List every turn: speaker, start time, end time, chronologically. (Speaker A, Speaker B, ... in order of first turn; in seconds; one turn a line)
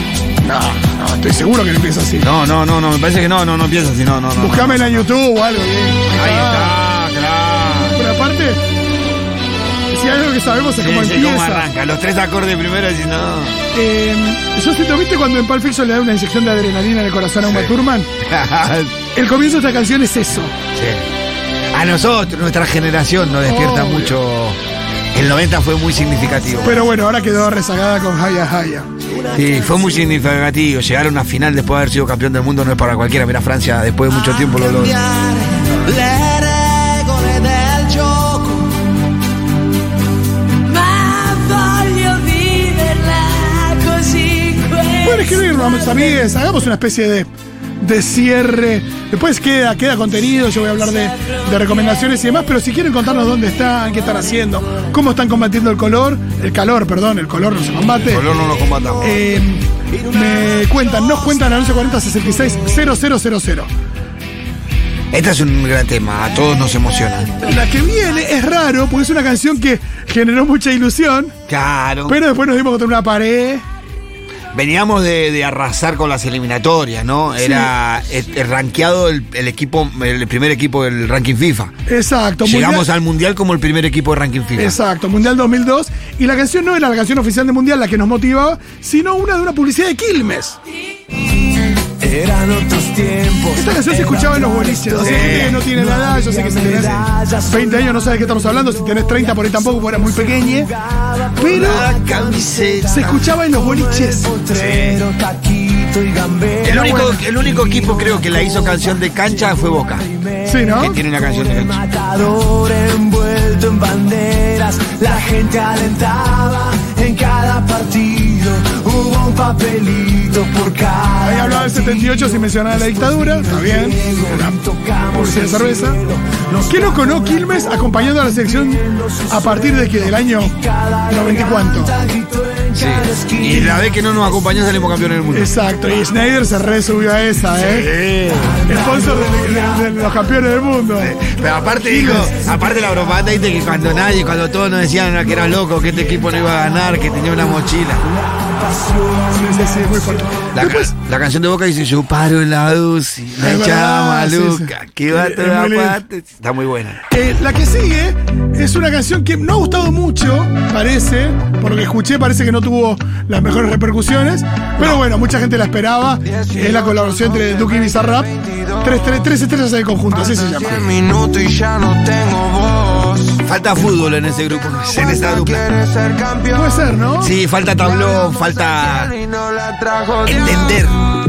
Speaker A: 0.4-2.3
Speaker B: 2.2-5.1
Speaker A: 4.3-6.8
Speaker B: 6.1-8.0
Speaker A: 7.9-8.6
Speaker A: 9.9-11.7
Speaker B: 10.8-13.6
Speaker A: 13.7-18.1
Speaker B: 17.4-18.9
Speaker A: 19.1-20.5
Speaker B: 20.7-21.0
Speaker B: 21.7-24.6
Speaker A: 23.4-24.2
Speaker B: 25.1-26.9
Speaker A: 26.6-28.9
Speaker B: 29.3-35.0
Speaker C: 35.0-38.7
Speaker D: 40.6-45.0
Speaker A: 44.9-58.3
Speaker B: 58.0-59.2
Speaker A: 59.0-63.7
Speaker B: 65.1-67.5
Speaker A: 67.4-71.3
Speaker B: 71.5-72.2
Speaker A: 72.1-73.6
Speaker B: 74.5-81.7
Speaker A: 77.4-77.7
Speaker A: 81.9-82.9
Speaker B: 82.4-84.8
Speaker A: 84.5-90.6
Speaker D: 92.0-93.6
Speaker A: 93.5-100.7
Speaker B: 94.9-95.7
Speaker A: 101.3-101.9
Speaker B: 101.4-103.3
Speaker A: 102.9-104.3
Speaker D: 104.3-106.6
Speaker B: 104.5-105.0
Speaker B: 106.6-110.1
Speaker A: 106.7-107.2
Speaker A: 110.4-111.0
Speaker B: 110.7-111.9
Speaker D: 111.9-121.8
Speaker A: 121.2-126.0
Speaker D: 124.8-127.1
Speaker A: 126.6-132.0
Speaker D: 132.1-132.8
Speaker B: 132.7-135.5
Speaker A: 135.3-137.9
Speaker B: 137.5-138.7
Speaker A: 138.7-141.2
Speaker B: 141.0-148.0
Speaker A: 141.8-142.3
Speaker A: 149.2-150.9
Speaker B: 150.5-157.0
Speaker A: 153.4-156.0
Speaker A: 157.1-171.0
Speaker E: 170.8-173.4
Speaker B: 173.4-175.7
Speaker E: 175.8-176.4
Speaker A: 176.4-177.3
Speaker B: 177.2-179.2
Speaker E: 179.3-180.3
Speaker B: 180.2-181.1